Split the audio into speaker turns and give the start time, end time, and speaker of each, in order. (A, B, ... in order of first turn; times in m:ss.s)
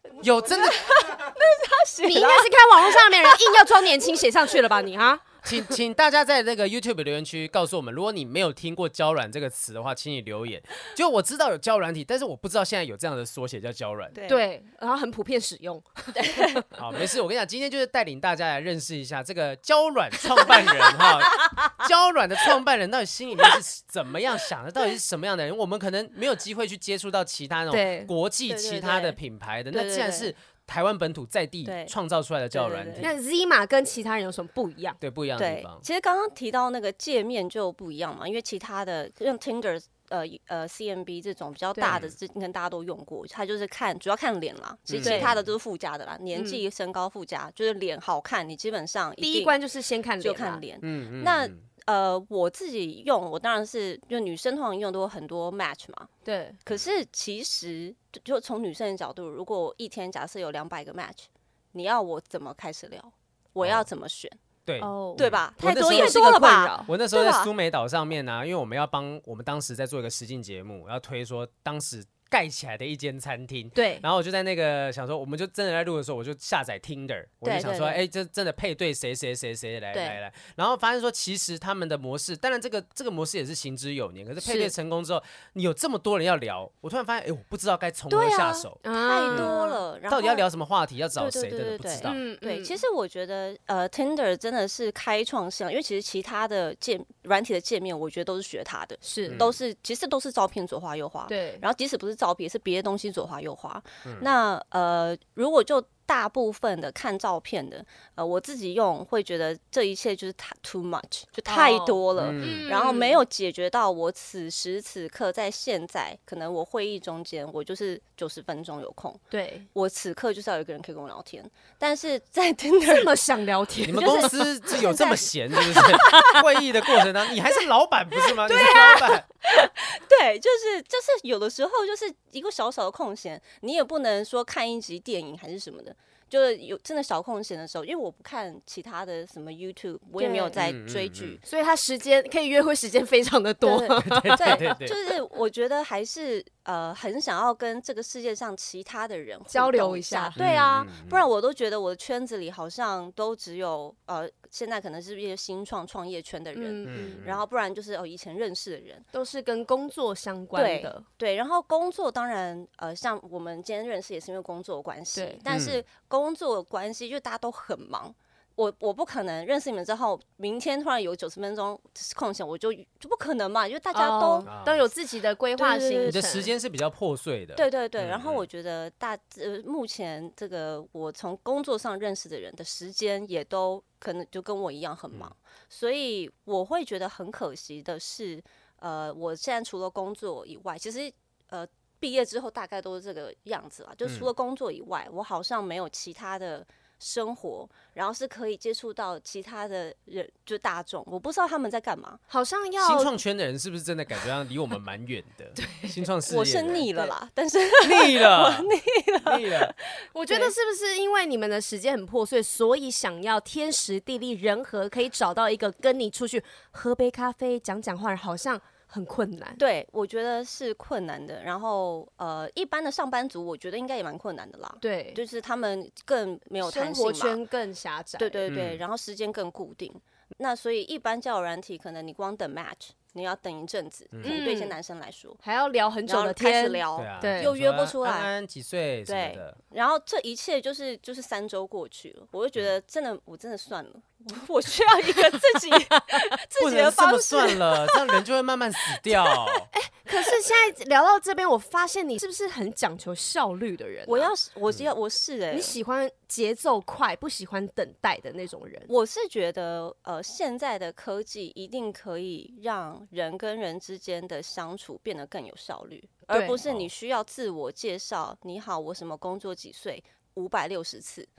0:00.2-0:00.8 A
0:00.5-0:03.7 B
0:02.0-0:05.8 C
0:05.4-0:14.2 A
0:14.1-0:14.4 B
0:14.2-0:16.6 C
0:16.2-0:16.6 B
0:16.7-0:33.1 A
0:27.7-0:28.1 C
0:28.5-0:29.2 B
0:29.7-0:30.3 B
0:31.6-0:31.9 B
0:32.5-0:33.1 B
0:33.0-0:35.0 C
0:35.0-0:35.8 A
0:35.4-0:49.5 B
0:41.7-0:42.0 C
0:41.9-0:42.1 A
0:44.9-0:45.4 A
0:45.0-0:45.4 C
0:46.3-0:46.6 C
0:49.2-0:50.6 C
0:50.2-0:56.1 B
0:50.8-0:51.6 A
0:56.2-0:56.6 C
0:56.6-1:04.4 B
1:03.6-1:03.8 A
1:04.6-1:06.2 A
1:04.8-1:06.9 C
1:05.2-1:07.5 B
1:06.8-1:28.8 A
1:13.7-1:14.0 C
1:17.4-1:18.0 B
1:19.9-1:20.2 B
1:28.1-1:30.4 B
1:28.8-1:29.8 C
1:29.3-1:29.5 A
1:30.1-1:32.2 A
1:31.2-1:59.2 B
1:32.0-1:32.8 C
1:39.0-1:39.4 C
1:39.3-1:39.6 A
1:41.3-1:41.6 C
1:51.5-1:53.2 C
1:52.2-1:52.7 A
1:59.3-1:59.7 C
1:59.7-2:03.1 B
2:02.8-2:04.3 C
2:03.8-2:09.3 A
2:04.0-2:06.4 B
2:05.8-2:06.4 C
2:08.5-2:21.4 B
2:08.5-2:09.1 C
2:20.2-2:20.6 C
2:20.6-2:21.4 A
2:21.4-2:24.6 C
2:23.6-2:39.0 B
2:24.0-2:25.0 A
2:29.5-2:30.4 C
2:30.4-2:31.2 A
2:36.5-2:37.2 C
2:36.8-2:37.4 A
2:39.1-2:41.0 C
2:40.5-2:54.5 B
2:45.1-2:45.4 C
2:45.5-2:45.8 A
2:53.9-2:56.5 C
2:54.4-2:54.8 A
2:55.6-2:56.2 B
2:56.0-2:58.4 A
2:57.6-3:22.2 B
3:22.3-3:23.1 C
3:22.8-3:26.8 A
3:25.6-3:26.0 C
3:26.3-3:30.5 B
3:27.8-3:29.7 A
3:30.1-3:39.6 C
3:39.6-3:47.4 B
3:44.8-3:45.2 C
3:46.6-3:48.4 C
3:48.2-3:55.4 B
3:48.5-3:48.8 A
3:54.1-3:54.4 A
3:54.2-3:54.8 C
3:55.4-3:57.5 C
3:56.1-3:58.3 B
3:57.0-3:59.6 A
3:59.1-4:08.0 B
4:05.1-4:05.8 C
4:06.6-4:09.7 A
4:09.7-4:14.3 C
4:14.1-4:15.8 B
4:15.5-4:18.9 C
4:18.9-4:31.3 B
4:26.3-4:26.6 C
4:26.6-4:26.9 A